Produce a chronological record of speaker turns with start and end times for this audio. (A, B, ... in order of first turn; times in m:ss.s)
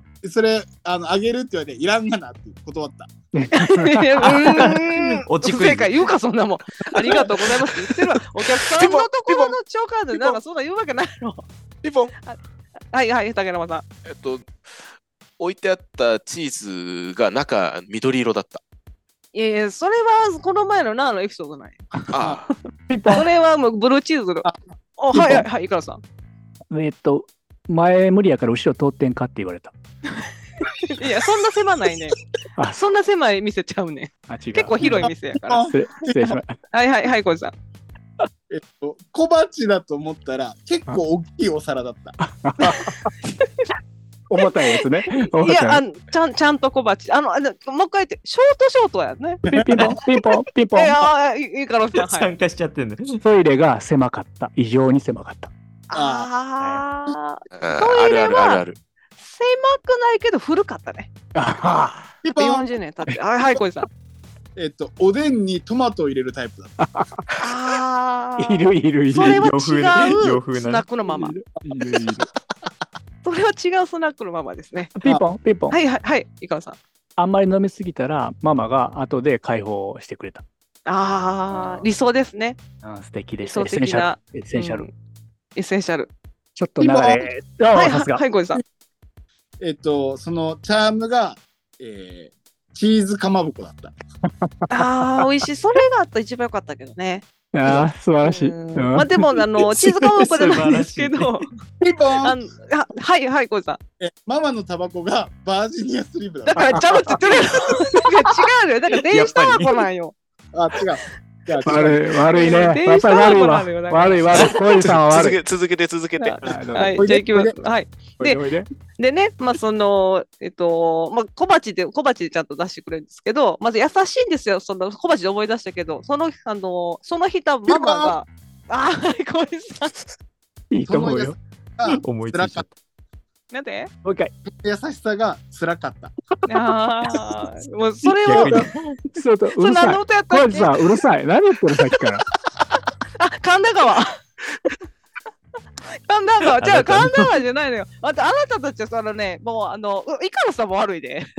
0:00.2-0:03.1 A
0:03.3-0:04.7 B
0:03.5-0:11.4 C
0:05.2-0:06.1 D
0:08.6-0:09.6 E
0:10.1-0:10.4 E
0:11.8-0:12.1 E
0:12.9-0:13.8 C
0:14.0-0:14.6 E
0:15.4-0:18.6 E
0:19.3-0:22.2 C
0:22.1-0:22.5 E
0:22.9-0:23.2 B
0:23.1-0:26.0 C
0:25.1-0:25.4 B
0:26.7-0:29.7 B
0:30.7-0:37.5 C
0:34.3-0:35.1 B
0:35.4-0:36.1 A
0:35.6-0:36.6 B
0:38.5-0:42.2 A
0:42.2-0:43.1 B
0:44.3-0:45.8 B
0:44.8-0:49.4 C
0:49.5-0:51.1 B
0:50.7-0:52.3 C
0:51.9-0:53.2 D
0:53.2-0:55.5 B
0:55.9-0:58.6 C
0:55.9-0:56.3 A
0:57.5-0:58.8 E
0:59.2-1:01.1 C
1:01.3-1:02.1 B
1:02.2-1:02.7 A
1:02.4-1:03.9 C
1:04.5-1:06.7 A
1:06.8-1:07.3 B
1:07.4-1:11.3 C
1:08.4-1:09.5 B
1:09.2-1:10.9 D
1:11.1-1:12.3 B
1:13.2-1:14.9 C
1:15.0-1:15.8 B
1:15.7-1:16.8 C
1:17.2-1:20.4 B
1:20.8-1:22.6 C
1:21.5-1:21.8 B
1:22.8-1:24.9 B
1:23.4-1:24.9 C
1:25.6-1:26.1 C
1:26.6-1:28.6 B
1:26.8-1:27.2 C
1:27.7-1:28.6 C
1:29.6-1:33.9 A
1:34.4-1:34.8 B
1:34.7-1:37.2 C
1:37.5-1:40.2 B
1:38.2-1:41.5 C
1:40.2-1:41.4 D
1:41.8-1:42.4 A
1:42.2-1:43.8 C
1:44.0-1:47.2 A
1:46.4-1:50.1 C
1:46.7-1:47.0 B
1:49.1-1:49.8 D
1:50.5-1:52.1 A
1:51.6-1:55.4 B
1:52.3-1:54.7 C
1:54.5-1:56.4 E
1:56.2-1:58.4 C
1:56.4-1:57.1 B
1:56.9-1:57.6 A
1:58.2-1:58.6 B
1:59.0-2:10.0 C
2:07.6-2:08.2 A
2:10.7-2:11.4 B
2:10.9-2:12.6 A
2:11.8-2:12.7 D
2:13.5-2:13.9 C
2:14.0-2:14.3 B
2:14.5-2:16.1 A
2:16.4-2:16.7 B
2:16.5-2:18.7 C
2:18.2-2:19.0 D
2:18.3-2:22.2 B
2:19.5-2:21.0 C
2:23.2-2:24.2 C
2:25.9-2:31.3 C
2:26.5-2:27.3 D